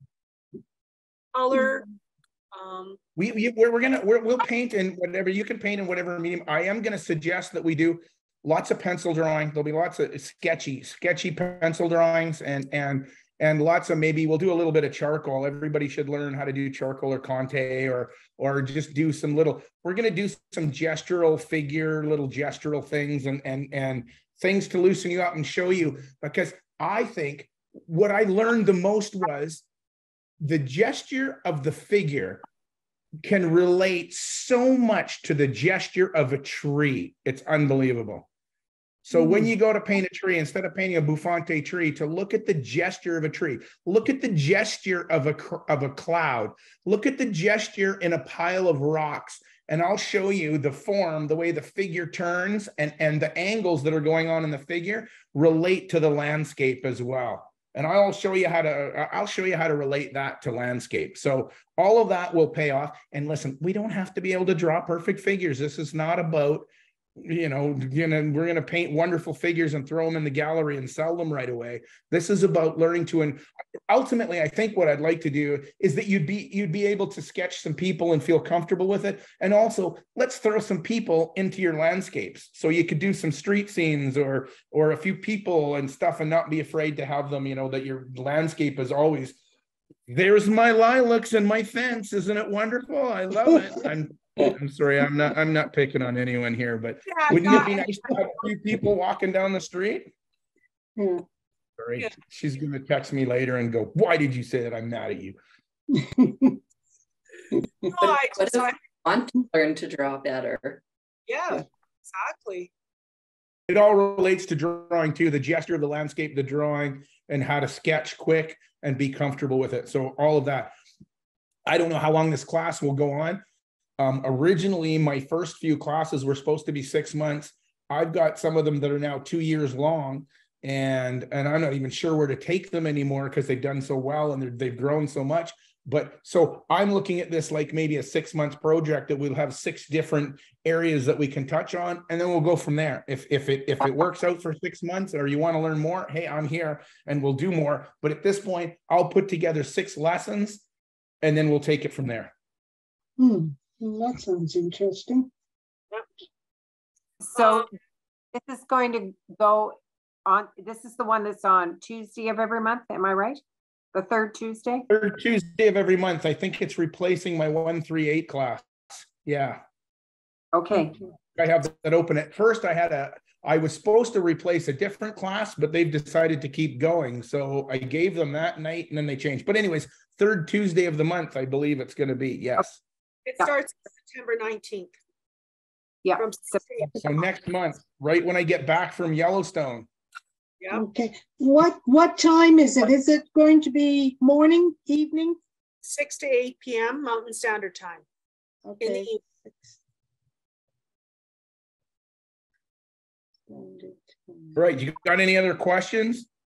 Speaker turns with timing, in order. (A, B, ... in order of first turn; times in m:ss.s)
0:01.3-0:01.9 A
0:02.5-0:03.0 A
0:03.2-0:29.6 B
0:30.4-0:32.4 B
0:33.2-0:38.2 B
0:39.0-1:29.4 B
0:39.1-0:39.5 C
1:30.1-1:40.1 B
1:37.1-1:38.1 A
1:41.0-1:41.2 C
1:41.8-1:45.4 B
1:45.9-1:46.6 C
1:47.9-1:48.8 A
1:48.0-1:50.8 D
1:51.3-1:52.7 A
1:53.7-2:00.7 B
2:01.7-2:03.4 B
2:04.0-2:30.6 B
2:31.2-2:32.3 B
2:33.2-2:35.3 C
2:37.2-2:37.7 E
2:37.4-2:37.7 A
2:38.3-2:43.4 E
2:43.9-2:44.8 E
2:44.9-2:49.6 B
2:50.5-2:51.0 E
2:51.4-3:02.8 B
3:03.2-3:05.0 A
3:06.0-3:06.6 E
3:06.2-3:07.0 A
3:07.0-3:09.9 B
3:10.7-3:15.4 C
3:15.8-3:18.0 A
3:18.6-3:19.7 C
3:18.8-3:19.2 A
3:23.5-3:24.6 C
3:24.5-3:26.3 B